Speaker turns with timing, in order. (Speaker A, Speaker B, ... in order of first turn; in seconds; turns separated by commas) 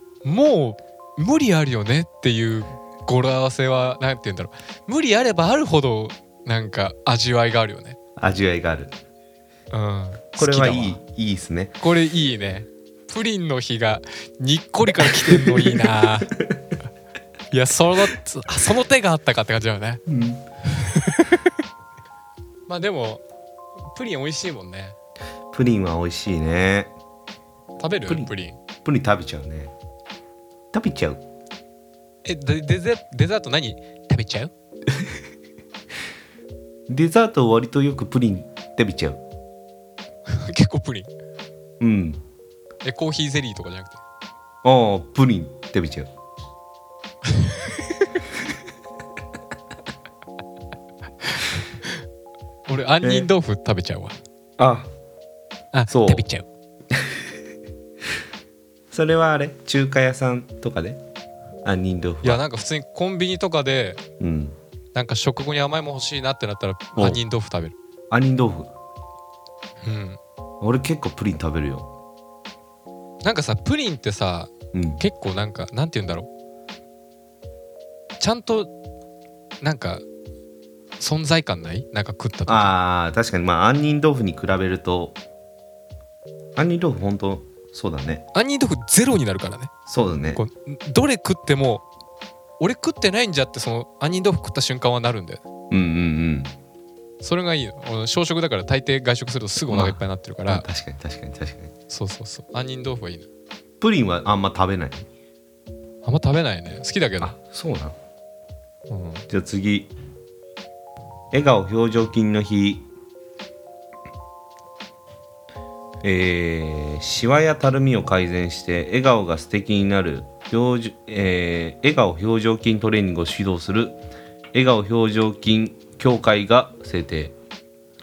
Speaker A: 0.2-8.0, Speaker B: 8.2-8.9, Speaker A: 9.7-11.0, Speaker B: 10.4-11.7, Speaker A: 11.8-16.3, Speaker B: 15.1-16.5, Speaker A: 17.5-20.0, Speaker B: 20.1-20.4, Speaker A: 20.7-21.5, Speaker A: 22.7-23.2, Speaker A: 23.9-25.0, Speaker B: 25.5-26.9, Speaker A: 27.8-28.6, Speaker B: 28.8-29.7, Speaker B: 30.7-31.2, Speaker A: 32.2-34.5, Speaker B: 36.9-39.2, Speaker A: 40.3-41.1, Speaker B: 41.8-42.2, Speaker A: 42.8-44.0, Speaker B: 44.6-46.1, Speaker A: 47.3-47.5, Speaker A: 52.7-54.2, Speaker B: 53.0-53.3, Speaker B: 54.6-54.9, Speaker A: 55.7-56.5, Speaker B: 55.9-56.2, Speaker B: 56.9-57.2, Speaker B: 58.9-61.0, Speaker B: 61.6-62.4, Speaker A: 62.2-64.0, Speaker B: 64.2-64.5, Speaker A: 64.9-67.8, Speaker B: 68.1-68.7, Speaker A: 69.8-70.2, Speaker B: 70.6-71.9, Speaker A: 73.2-76.3, Speaker B: 74.7-75.0, Speaker A: 78.2-78.7, Speaker A: 79.6-80.0, Speaker A: 81.0-82.7, Speaker B: 82.5-85.2, Speaker B: 86.5-88.2, Speaker A: 88.3-89.7, Speaker B: 89.8-90.4, Speaker A: 90.3-91.8, Speaker A: 92.6-95.4, Speaker B: 95.7-96.5, Speaker A: 97.2-100.6, Speaker B: 99.7-101.7, Speaker A: 101.9-103.3, Speaker B: 103.8-105.1, Speaker A: 106.0-107.3, Speaker B: 107.2-108.0, Speaker A: 108.9-109.2, Speaker B: 109.3-109.9, Speaker B: 111.3-112.8, Speaker B: 116.0-124.0, Speaker B: 124.5-127.3